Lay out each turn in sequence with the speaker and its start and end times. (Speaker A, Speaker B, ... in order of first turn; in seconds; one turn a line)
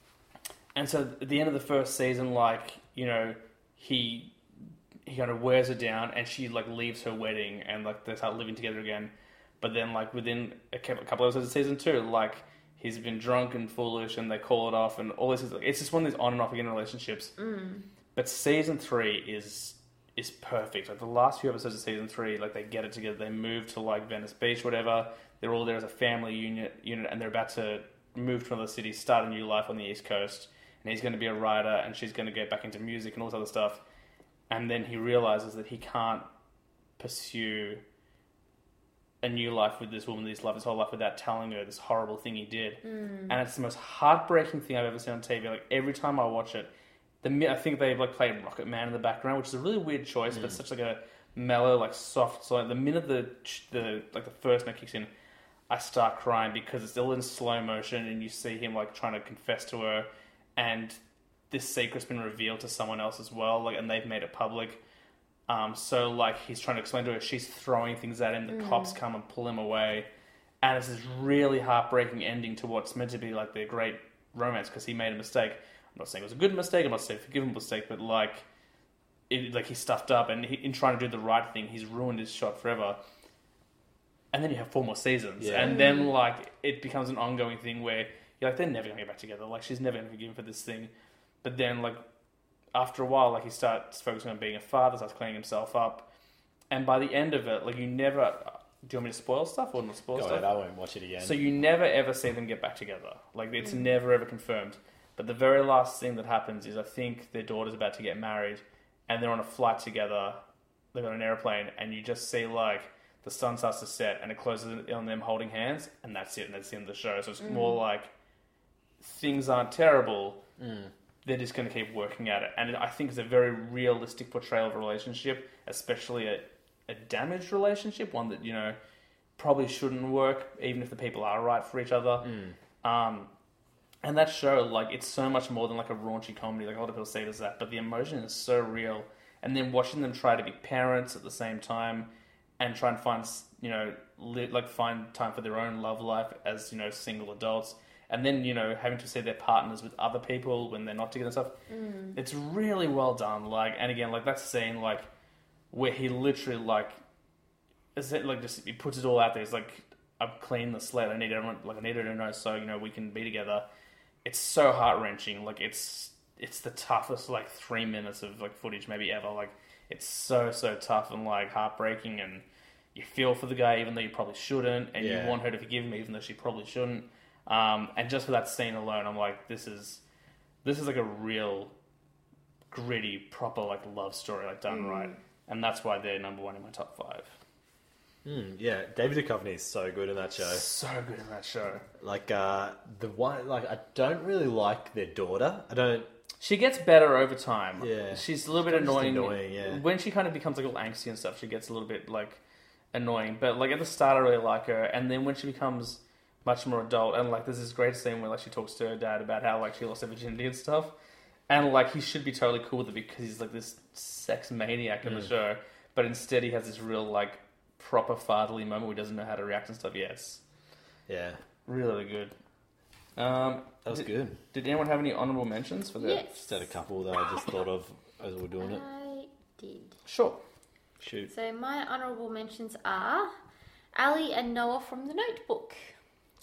Speaker A: 0.7-4.3
Speaker A: 5.1-17.3
Speaker B: 17.4-17.9
Speaker A: 18.1-33.8
Speaker A: 34.5-36.3
Speaker A: 37.0-37.8
Speaker A: 39.2-46.7
Speaker B: 42.8-43.4
Speaker A: 47.2-55.1
Speaker C: 50.3-50.6
Speaker A: 55.7-61.0
Speaker A: 61.5-64.8
Speaker A: 65.5-70.1
Speaker B: 68.5-69.0
Speaker A: 70.6-78.5
Speaker A: 79.3-83.0
Speaker A: 84.3-90.9
Speaker C: 85.4-85.8
Speaker B: 85.6-86.1
Speaker A: 91.4-92.0
Speaker A: 92.7-96.1
Speaker A: 96.7-100.5
Speaker C: 100.1-101.4
Speaker A: 101.2-110.4
Speaker A: 110.9-118.1
Speaker B: 117.4-117.8
Speaker A: 119.0-120.4
Speaker C: 120.6-120.9
Speaker A: 121.2-128.8
Speaker A: 129.4-132.3
Speaker C: 132.2-132.6
Speaker A: 132.8-133.3
Speaker A: 134.0-151.5
Speaker B: 151.7-152.2
Speaker A: 152.2-155.1
Speaker A: 155.7-157.0
Speaker A: 157.9-163.7
Speaker A: 164.2-180.0
Speaker C: 175.0-175.4
Speaker A: 180.6-181.7
Speaker A: 182.7-187.4
Speaker B: 184.7-185.2
Speaker C: 188.2-190.6
Speaker A: 190.4-191.9
Speaker C: 192.0-196.1
Speaker A: 196.4-202.4
Speaker C: 197.8-199.8
Speaker A: 202.9-210.9
Speaker A: 211.5-220.4
Speaker C: 215.1-215.3
Speaker C: 221.1-221.4
Speaker A: 221.7-222.3
Speaker A: 223.2-226.5
Speaker C: 223.8-224.4
Speaker B: 226.0-226.5
Speaker C: 226.4-228.8
Speaker B: 228.6-230.0
Speaker A: 230.1-230.4
Speaker C: 231.0-231.3
Speaker B: 231.3-233.3
Speaker B: 233.9-235.9